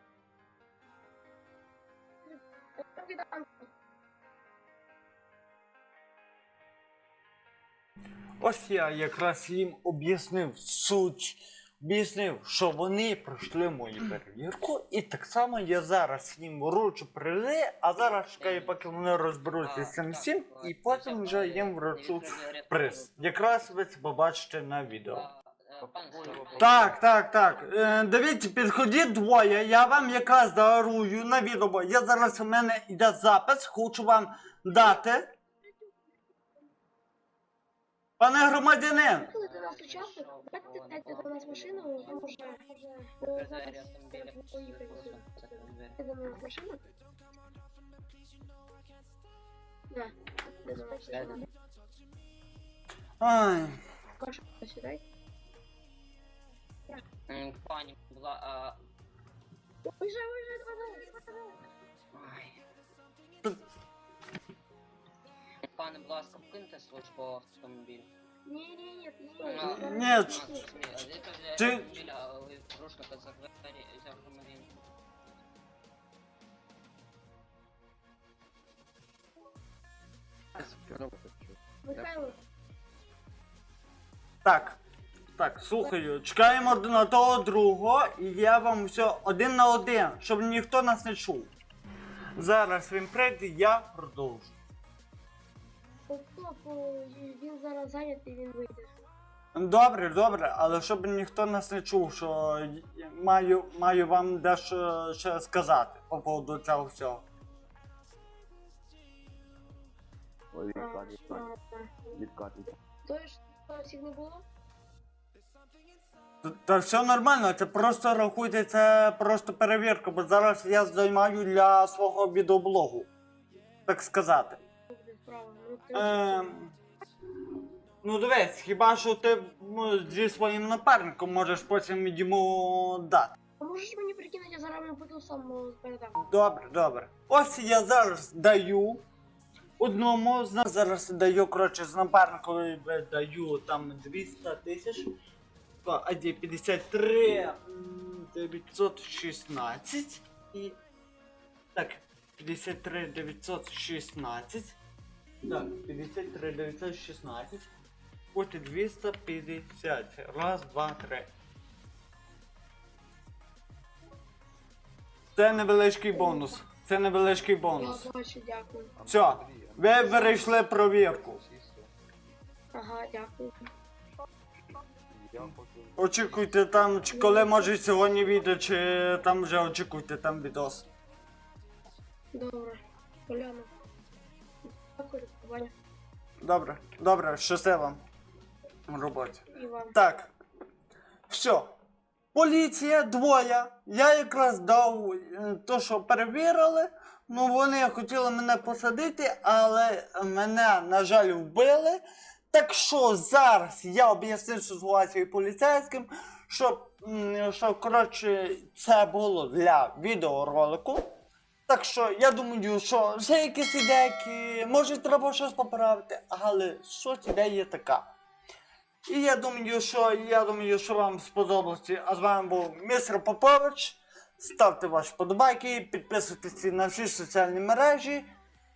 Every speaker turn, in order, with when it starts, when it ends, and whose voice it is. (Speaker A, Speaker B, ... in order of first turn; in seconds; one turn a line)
Speaker A: 2.3-3.7
Speaker B: 8.4-25.3
Speaker C: 18.2-19.1
Speaker C: 19.6-23.7
Speaker C: 25.1-27.7
Speaker D: 25.8-27.0
Speaker B: 26.5-35.2
Speaker A: 34.7-35.1
Speaker B: 38.2-39.3
Speaker A: 39.1-46.8
Speaker C: 39.3-42.4
Speaker C: 43.3-46.0
Speaker A: 49.9-51.5
Speaker C: 51.1-51.4
Speaker B: 53.2-53.8
Speaker A: 54.2-55.0
Speaker C: 57.3-58.8
Speaker A: 59.9-61.5
Speaker C: 62.1-62.6
Speaker C: 65.7-68.1
Speaker A: 68.5-70.7
Speaker C: 69.4-74.8
Speaker B: 69.6-70.5
Speaker B: 71.6-71.9
Speaker D: 80.7-82.3
Speaker A: 81.8-82.4
Speaker B: 84.4-84.8
Speaker B: 85.4-91.5
Speaker B: 92.4-94.5
Speaker A: 96.1-98.9
Speaker B: 99.5-107.2
Speaker D: 110.5-111.5
Speaker A: 110.7-112.2
Speaker D: 112.2-112.7
Speaker A: 113.0-114.5
Speaker B: 116.4-123.1
Speaker B: 123.9-124.6
Speaker A: 124.9-126.5
Speaker B: 125.9-126.7
Speaker B: 128.0-133.3
Speaker A: 133.6-136.2
Speaker B: 136.2-139.0
Speaker B: 139.8-145.1
Speaker B: 145.8-150.8
Speaker B: 151.8-154.8
Speaker B: 155.4-157.7
Speaker B: 158.3-161.3
Speaker B: 165.4-168.1
Speaker A: 166.1-166.5
Speaker A: 167.7-168.9
Speaker D: 169.0-171.9
Speaker B: 169.1-171.4
Speaker A: 169.9-170.5
Speaker A: 172.7-173.6
Speaker D: 175.1-177.1
Speaker B: 176.0-180.9
Speaker A: 177.1-177.8
Speaker A: 182.3-183.7
Speaker A: 184.8-185.7
Speaker B: 186.4-188.0
Speaker B: 188.9-189.4
Speaker A: 189.5-189.9
Speaker B: 189.9-190.3
Speaker B: 191.3-191.7
Speaker B: 192.3-211.0
Speaker B: 211.7-218.1
Speaker B: 219.1-228.3